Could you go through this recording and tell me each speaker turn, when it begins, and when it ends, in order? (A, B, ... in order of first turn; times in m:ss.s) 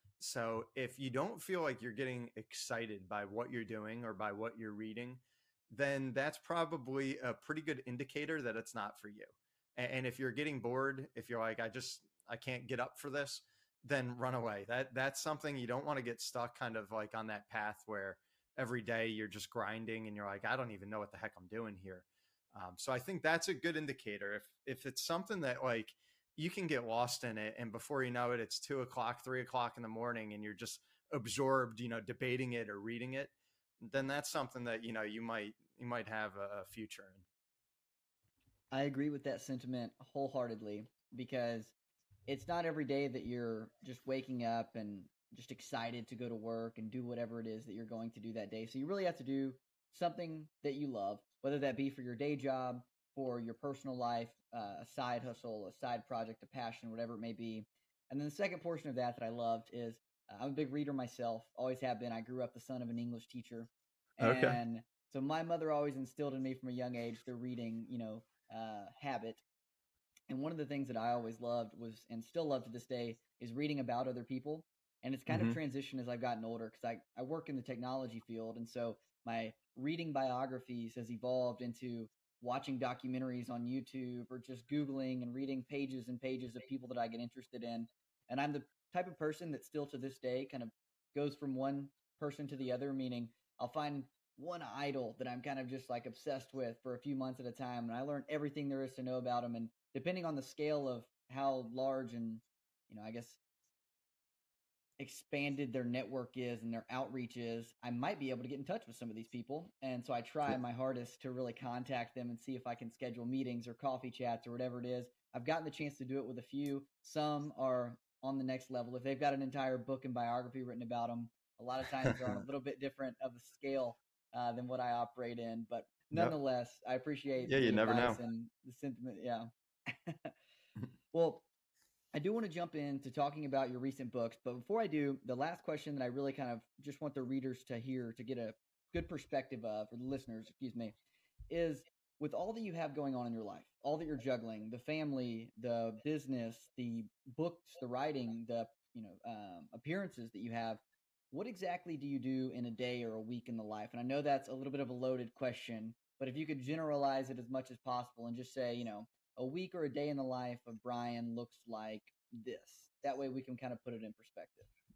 0:00.2-0:37.2 A
0:38.7-0:41.7 B
0:42.3-1:09.4 B
1:04.2-1:04.6 A
1:10.3-1:43.4 B
1:15.3-1:15.6 A
1:45.0-2:10.3 B
2:07.5-2:08.2 A
2:11.1-2:11.4 B
2:12.1-2:21.0 B
2:21.5-2:44.7 B